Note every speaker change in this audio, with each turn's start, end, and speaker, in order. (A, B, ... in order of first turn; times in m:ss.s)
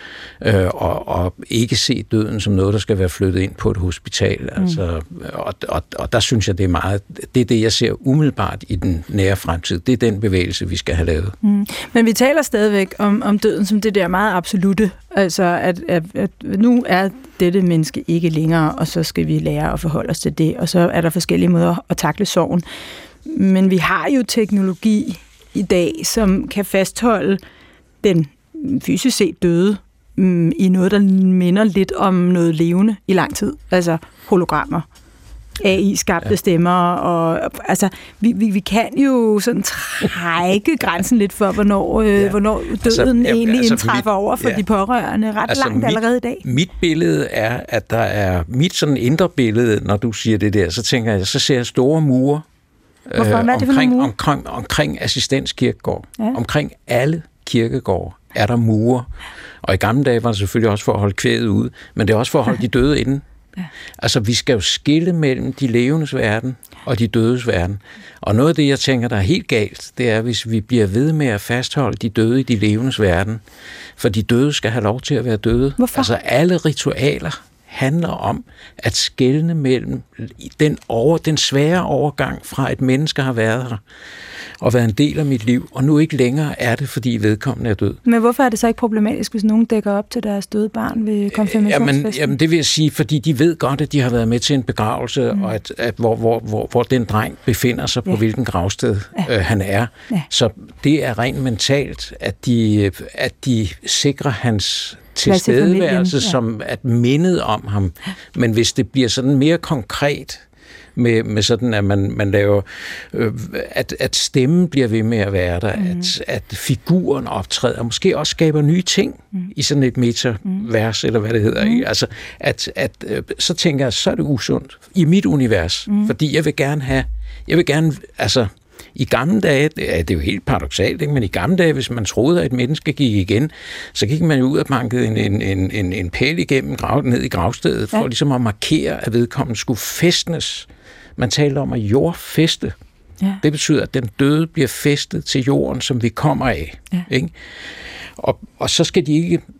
0:00.4-0:11.3 A
0:11.4-0:22.6 B
0:23.2-0:27.4 B
0:28.0-0:34.8 B
0:35.6-0:46.4 B
0:42.2-0:44.6 A
0:45.5-0:52.4 A
0:53.1-0:59.1 A
0:53.2-0:54.1 B
0:59.6-1:03.2 A
1:04.0-1:13.4 A
1:14.0-1:23.8 A
1:15.8-1:16.1 B
1:24.6-1:28.0 A
1:28.0-1:32.3 B
1:31.3-1:50.4 A
1:45.2-1:46.4 B
1:51.0-2:22.7 A
1:55.8-1:56.1 B
2:23.4-2:27.3 A
2:28.2-2:29.4 A